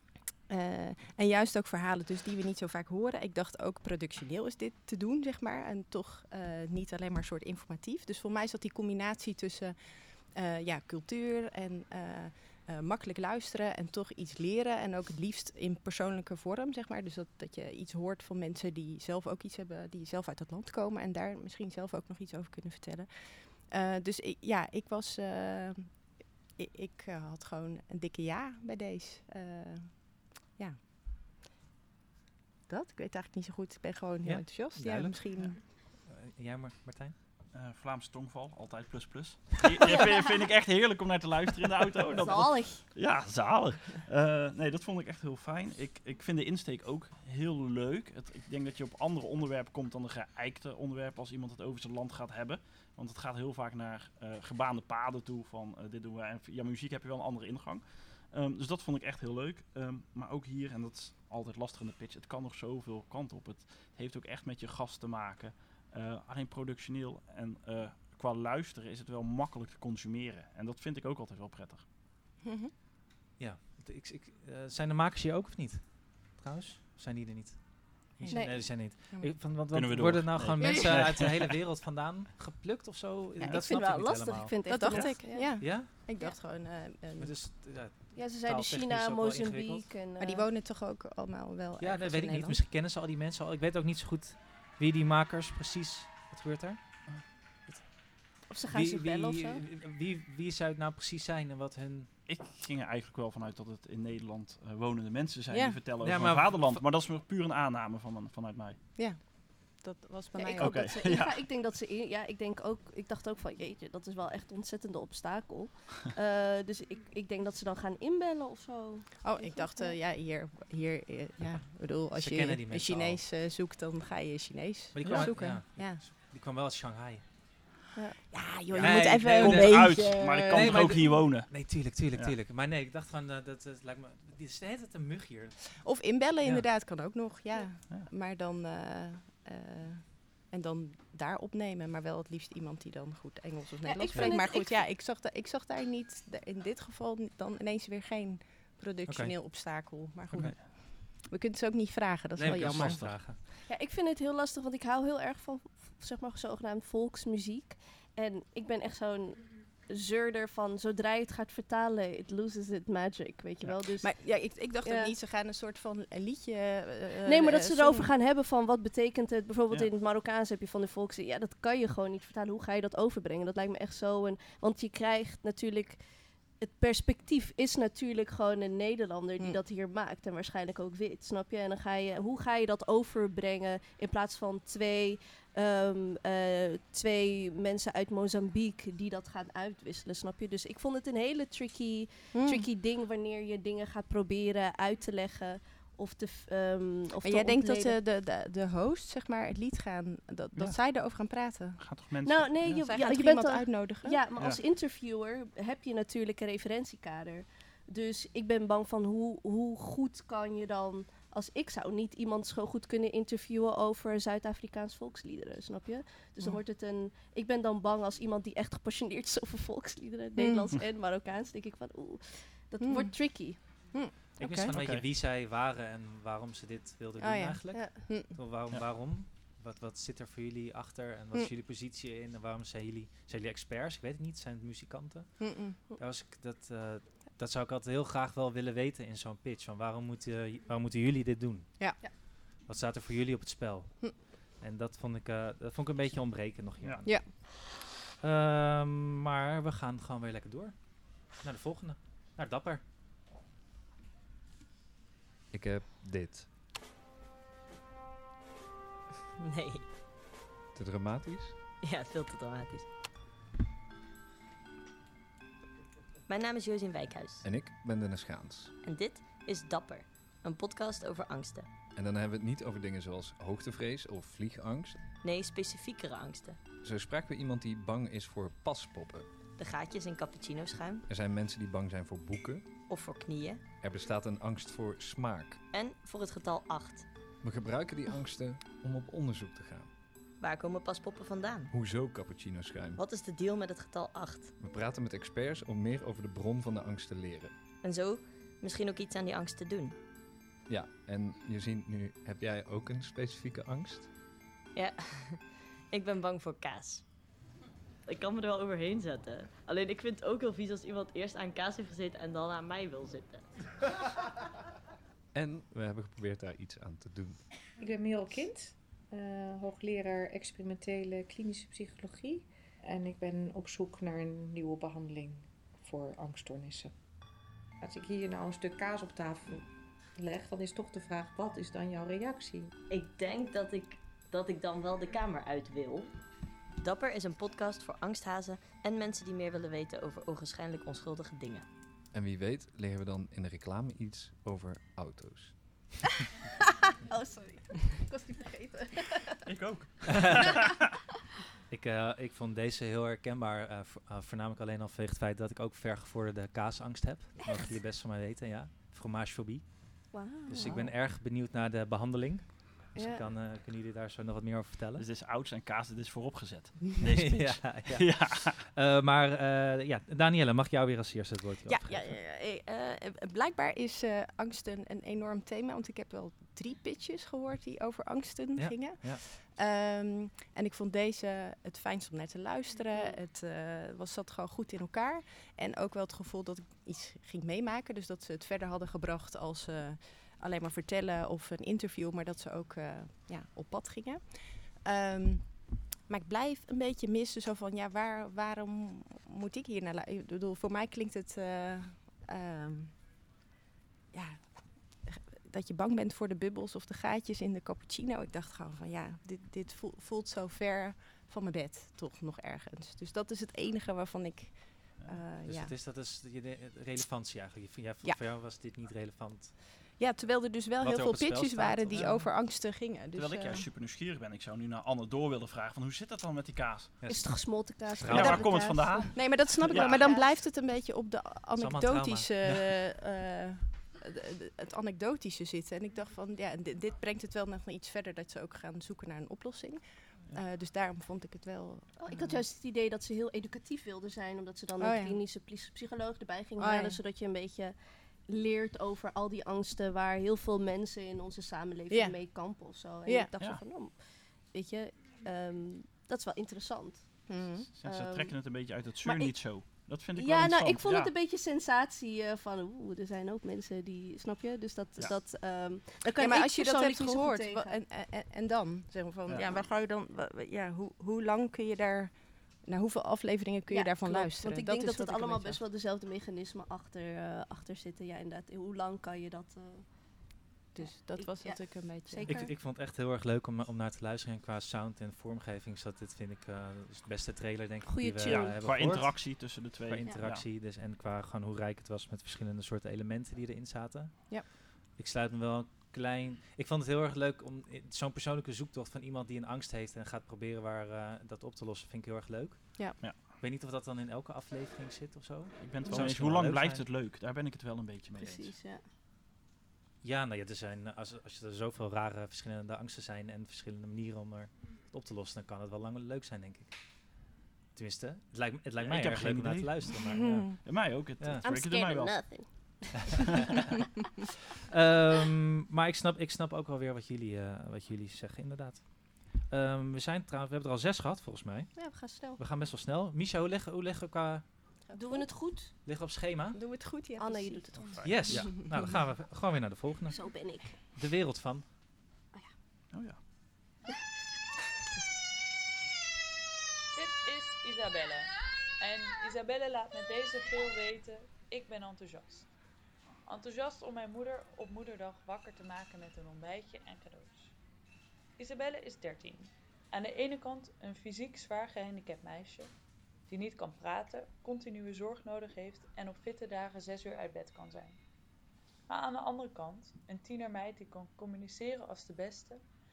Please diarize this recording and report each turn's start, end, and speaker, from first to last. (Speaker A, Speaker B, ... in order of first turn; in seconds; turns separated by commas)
Speaker A: 0.5-30.8, Speaker A: 32.7-35.6, Speaker B: 34.2-37.1, Speaker C: 37.5-71.8, Speaker D: 42.2-42.9, Speaker A: 72.4-72.7, Speaker B: 73.4-85.9, Speaker D: 78.3-78.7, Speaker A: 78.6-79.3, Speaker C: 79.7-81.6, Speaker D: 80.6-80.9, Speaker D: 83.5-85.6, Speaker A: 84.7-87.3, Speaker B: 87.2-89.9, Speaker D: 88.2-90.5, Speaker A: 90.2-92.6, Speaker B: 91.8-97.0, Speaker D: 98.5-99.6, Speaker B: 98.7-102.1, Speaker C: 102.3-108.8, Speaker A: 105.5-105.8, Speaker B: 106.0-106.8, Speaker A: 109.0-110.9, Speaker D: 110.4-120.0, Speaker C: 110.6-111.4, Speaker A: 119.2-126.0, Speaker B: 122.2-123.2, Speaker B: 124.9-127.2, Speaker C: 125.1-125.3, Speaker A: 128.3-131.0, Speaker C: 128.8-131.5, Speaker B: 128.8-135.8, Speaker A: 135.8-153.3, Speaker D: 143.8-144.8, Speaker B: 149.1-149.4, Speaker C: 150.4-150.6, Speaker B: 152.4-153.4, Speaker C: 152.5-153.2, Speaker D: 153.7-165.1, Speaker A: 164.0-168.1, Speaker D: 167.3-176.1, Speaker D: 176.6-197.9, Speaker A: 192.3-192.7, Speaker A: 197.2-201.8, Speaker C: 201.8-202.9, Speaker D: 202.2-223.6, Speaker A: 202.8-204.2, Speaker A: 220.4-220.7, Speaker A: 222.8-224.8, Speaker B: 224.4-242.1, Speaker C: 224.6-225.1, Speaker A: 227.2-228.3, Speaker A: 235.4-235.8, Speaker B: 242.6-247.7, Speaker B: 248.2-252.8, Speaker E: 255.5-256.5, Speaker F: 259.4-259.9, Speaker E: 260.7-261.6, Speaker F: 261.8-262.9, Speaker F: 266.3-267.5, Speaker E: 267.4-268.7, Speaker F: 268.8-271.7, Speaker E: 271.9-275.1, Speaker F: 275.1-276.6, Speaker E: 276.8-279.3, Speaker F: 279.6-281.0, Speaker E: 281.1-282.7, Speaker F: 282.9-283.6, Speaker E: 283.8-285.7, Speaker F: 285.7-287.1, Speaker E: 287.4-289.9, Speaker F: 290.4-291.7, Speaker E: 291.7-293.0, Speaker F: 293.0-294.6, Speaker E: 294.6-297.5, Speaker F: 297.8-300.0, Speaker E: 300.7-304.1, Speaker F: 304.7-307.1, Speaker F: 308.1-313.7, Speaker E: 315.3-317.6, Speaker G: 317.8-326.9, Speaker G: 327.8-332.7, Speaker F: 332.9-336.1, Speaker F: 336.8-341.7, Speaker E: 342.1-345.9, Speaker D: 347.1-349.3, Speaker C: 349.5-350.6, Speaker B: 351.7-365.1, Speaker D: 360.1-360.8, Speaker A: 360.6-360.9, Speaker D: 362.9-363.2, Speaker C: 365.0-368.6, Speaker B: 367.0-372.2, Speaker A: 371.7-402.9, Speaker B: 378.6-379.2, Speaker A: 404.1-415.7, Speaker B: 415.4-419.6, Speaker A: 420.0-423.7, Speaker B: 420.8-422.3, Speaker C: 421.9-422.2, Speaker C: 423.1-427.0, Speaker B: 427.0-428.7, Speaker D: 427.1-430.3, Speaker C: 428.1-430.1, Speaker A: 429.1-442.4, Speaker B: 431.6-432.7, Speaker D: 442.0-458.5, Speaker A: 444.8-445.2, Speaker A: 446.6-447.0, Speaker A: 451.9-452.2, Speaker A: 457.3-457.7, Speaker C: 457.8-461.1, Speaker D: 459.0-459.5, Speaker D: 460.1-467.8, Speaker A: 466.0-475.6, Speaker C: 469.3-469.6, Speaker D: 473.7-479.9, Speaker A: 480.8-482.5, Speaker D: 480.8-482.5, Speaker B: 482.3-506.8, Speaker D: 487.9-488.5, Speaker C: 488.2-490.5, Speaker C: 505.6-508.6, Speaker D: 508.1-508.9, Speaker B: 510.0-516.8, Speaker B: 517.8-520.6, Speaker C: 518.8-519.9, Speaker A: 520.1-520.5, Speaker C: 520.6-522.7, Speaker B: 521.2-521.5, Speaker D: 521.4-523.1, Speaker B: 524.7-534.5, Speaker D: 531.8-532.4, Speaker A: 534.9-535.3, Speaker D: 534.9-535.7, Speaker B: 535.8-536.6, Speaker A: 536.5-538.6, Speaker D: 537.2-538.4, Speaker C: 538.0-538.6, Speaker B: 538.0-541.7, Speaker D: 540.1-540.8, Speaker C: 542.9-543.2, Speaker H: 546.9-552.5, Speaker H: 553.3-557.5, Speaker H: 558.4-562.7, Speaker H: 563.3-568.0, Speaker H: 568.9-572.6